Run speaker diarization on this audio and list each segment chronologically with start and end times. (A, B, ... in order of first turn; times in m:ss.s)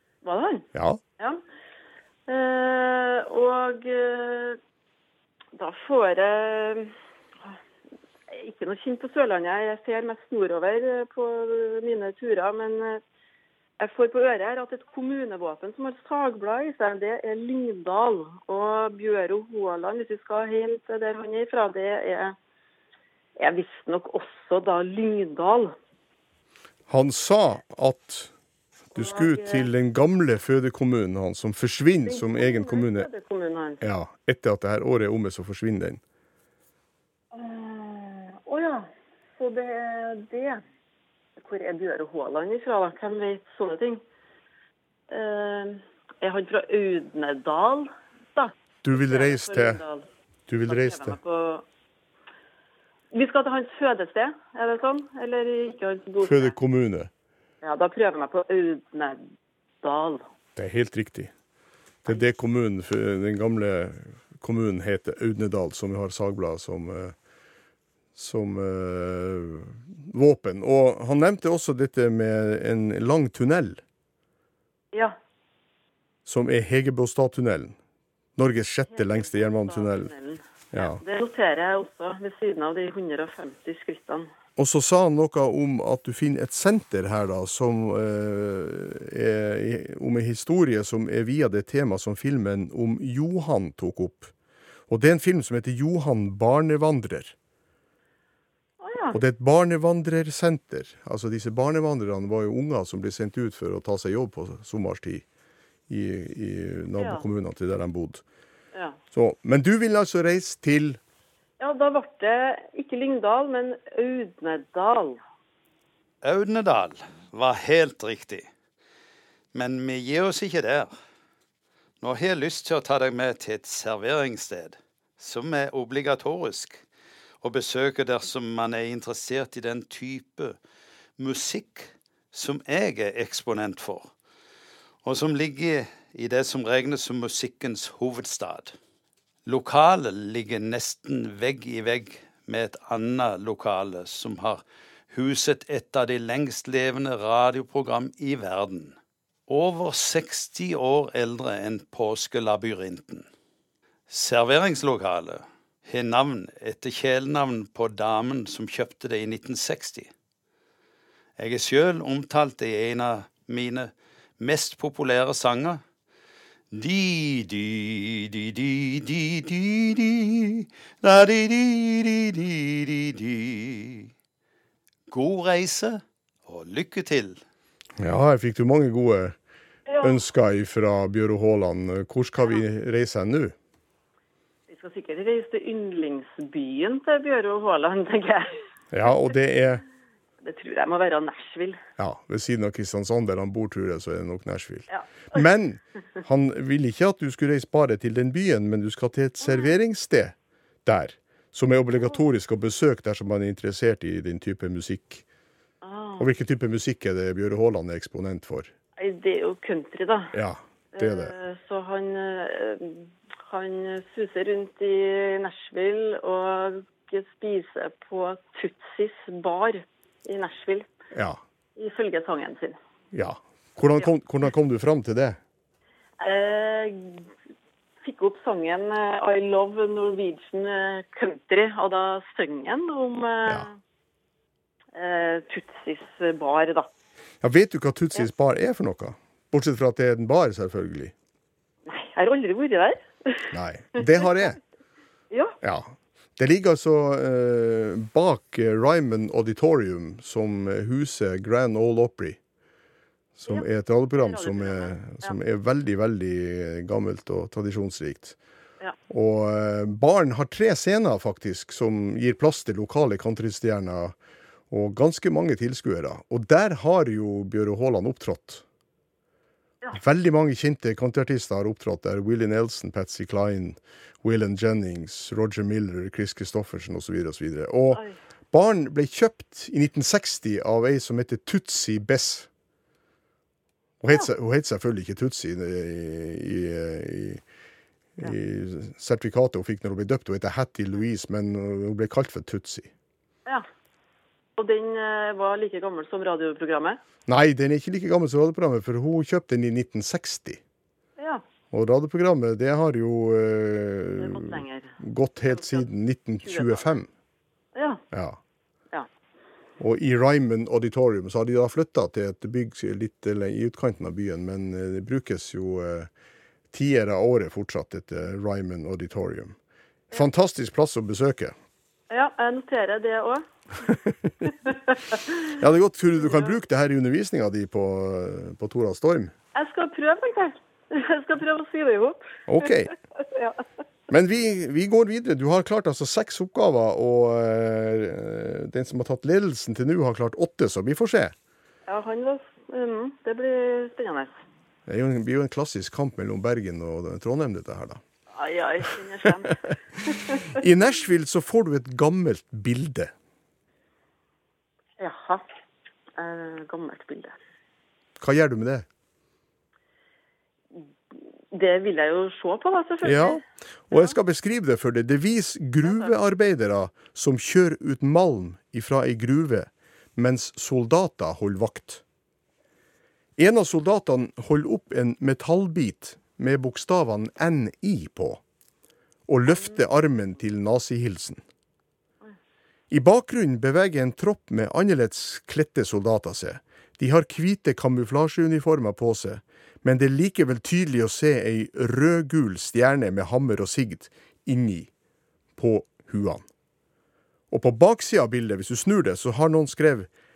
0:00.2-0:00.7 A
0:00.7-0:01.0 B
0:02.3-0:04.6 A
0:05.5-0:06.9 A
0:08.3-0:13.0 A
0:13.8-0:22.4 A
0:23.4-0:25.7 A
0:26.9-0:28.3 B
0:28.9-0:33.1 B
0:28.9-0:29.7 A
0:32.0-0:33.8 A
0:33.8-0:36.0 B
0:37.3-0:40.6 A
0:41.4-0:44.0 A
0:45.1-0:50.0 A
0:48.8-0:49.8 B
0:50.5-0:51.2 B
0:50.7-0:51.6 A
0:53.1-0:56.6 A
0:56.2-0:57.1 B
0:57.6-0:59.2 A
0:59.8-1:00.2 A
1:00.6-1:01.3 B
1:02.0-1:07.1 B
1:08.2-1:13.8 B
1:16.2-1:17.8 B
1:18.4-1:20.1 B
1:18.9-1:24.3 A
1:20.7-1:21.0 B
1:24.6-1:34.3 B
1:34.9-1:37.3 B
1:38.8-1:39.2 A
1:39.1-1:45.2 B
1:45.9-1:48.2 B
1:47.0-1:47.2 A
1:49.1-1:51.0 B
1:51.6-1:55.2 A
1:56.2-1:58.5 C
1:59.5-2:00.9 C
2:02.0-2:06.8 C
2:07.4-2:10.6 C
2:11.2-2:14.1 C
2:15.0-2:18.7 C
2:19.4-2:29.0 C
2:29.5-2:33.3 C
2:34.1-2:40.1 C
2:41.4-2:45.8 C
2:46.7-2:54.1 C
2:55.1-2:57.4 C
2:58.0-2:59.4 B
2:59.9-3:00.2 A
3:00.0-3:03.5 B
3:04.7-3:08.6 A
3:08.9-3:09.8 B
3:10.4-3:11.8 A
3:12.0-3:25.2 B
3:14.9-3:15.4 A
3:19.4-3:19.7 A
3:25.8-3:26.3 A
3:26.2-3:28.7 B
3:29.0-3:30.3 A
3:30.3-3:31.3 B
3:30.9-3:40.9 A
3:41.1-3:41.4 B
3:41.8-3:42.8 A
3:43.1-3:45.4 B
3:46.2-3:47.3 A
3:48.0-3:53.8 A
3:54.9-3:56.9 A
3:57.4-4:01.1 B
4:01.9-4:04.5 A
4:03.5-4:04.6 B
4:05.3-4:05.6 A
4:05.6-4:12.4 B
4:13.4-4:18.4 B
4:14.2-4:15.4 A
4:19.1-4:24.2 B
4:24.7-4:28.6 B
4:29.9-4:42.5 B
4:44.0-4:47.4 B
4:48.2-4:52.9 B
4:54.6-4:57.0 A
4:57.3-5:00.6 B
5:01.2-5:01.4 A
5:01.7-5:07.1 B
5:04.2-5:05.8 A
5:06.4-5:06.9 A
5:07.7-5:08.0 A
5:08.1-5:08.4 B
5:09.8-5:16.1 B
5:16.7-5:19.6 B
5:20.1-5:21.5 B
5:22.1-5:23.9 A
5:23.9-5:24.3 B
5:24.6-5:25.5 A
5:25.5-5:29.3 B
5:26.2-5:26.5 A
5:29.5-5:33.6 A
5:32.5-5:32.9 B
5:34.1-5:41.3 B
5:41.9-5:44.3 A
5:44.9-5:48.0 B
5:48.3-5:50.6 A
5:50.4-5:53.1 B
5:55.0-5:55.4 A
5:56.2-5:57.4 A
5:58.2-5:58.8 B
6:00.8-6:04.2 A
6:03.0-6:12.0 B
6:05.8-6:06.1 A
6:13.4-6:18.4 B
6:19.3-6:21.4 B
6:19.5-6:19.8 A
6:22.9-6:34.9 B
6:35.6-6:36.4 B
6:37.5-6:40.1 B